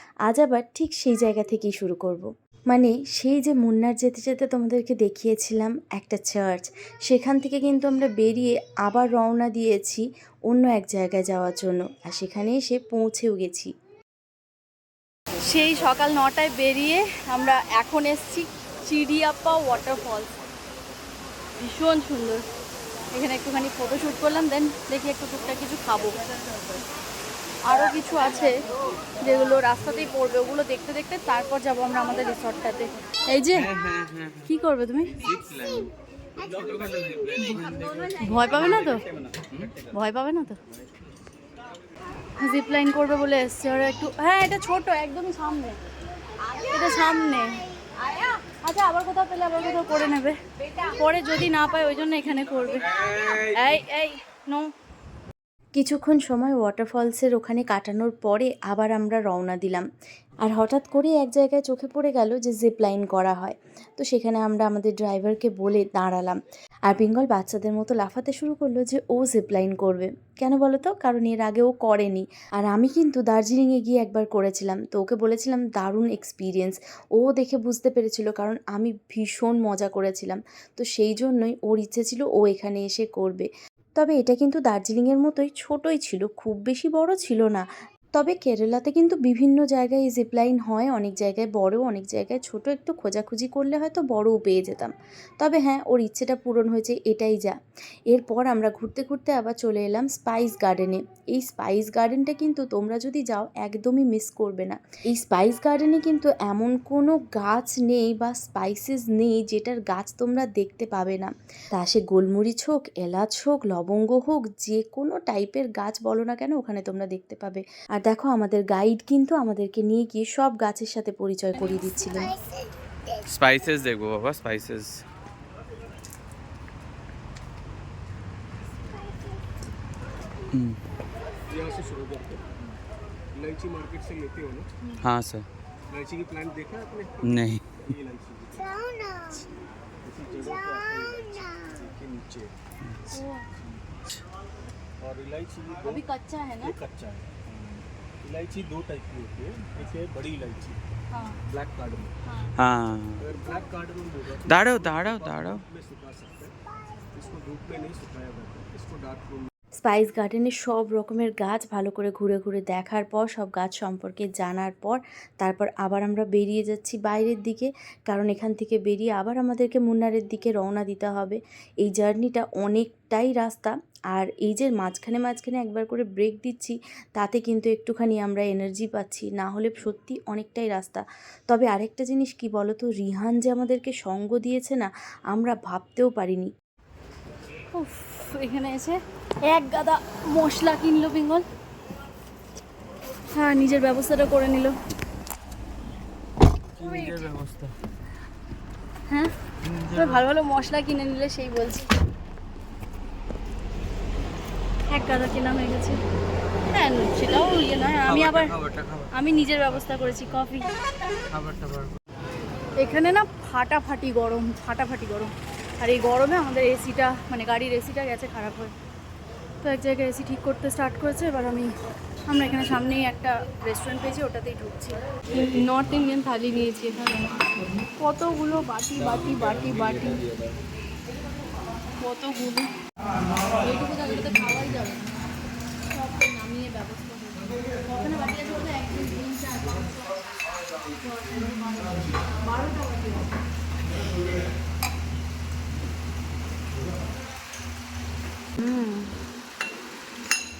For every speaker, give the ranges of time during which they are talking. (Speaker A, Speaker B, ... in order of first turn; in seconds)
Speaker A: 0.3-13.7, 55.7-59.9, 60.5-87.6, 88.2-97.5, 98.1-122.3, 159.8-186.5
Speaker B: 15.4-20.3, 21.6-22.4, 23.1-26.2, 27.7-28.5, 29.2-33.7, 34.5-35.2, 37.4-39.0, 39.9-40.5, 42.4-45.8, 46.6-47.6, 48.5-50.3, 50.9-54.7, 143.1-143.5, 145.8-146.8, 187.7-191.4, 193.3-194.7, 196.8-197.3, 199.9-201.9, 204.9-206.0, 206.7-208.6, 209.1-210.7, 212.8-218.7, 219.6-221.7, 222.3-227.4, 228.0-230.2, 232.0-232.7, 233.6-235.1, 235.9-243.3, 248.6-249.1
Speaker C: 33.5-34.5, 35.2-35.9, 36.4-39.9, 52.8-53.8, 123.2-125.0, 130.5-130.8, 135.0-135.5, 137.2-137.6, 142.9-143.2, 152.6-153.2, 154.4-155.6, 196.8-197.7, 199.6-200.2, 208.1-209.1, 211.3-211.9, 229.0-230.6
Speaker D: 131.5-132.4, 133.3-134.7, 135.9-138.9, 140.0-142.5, 145.0-146.0, 146.6-147.3, 148.2-150.8, 151.4-152.2, 153.2-156.5, 157.1-159.5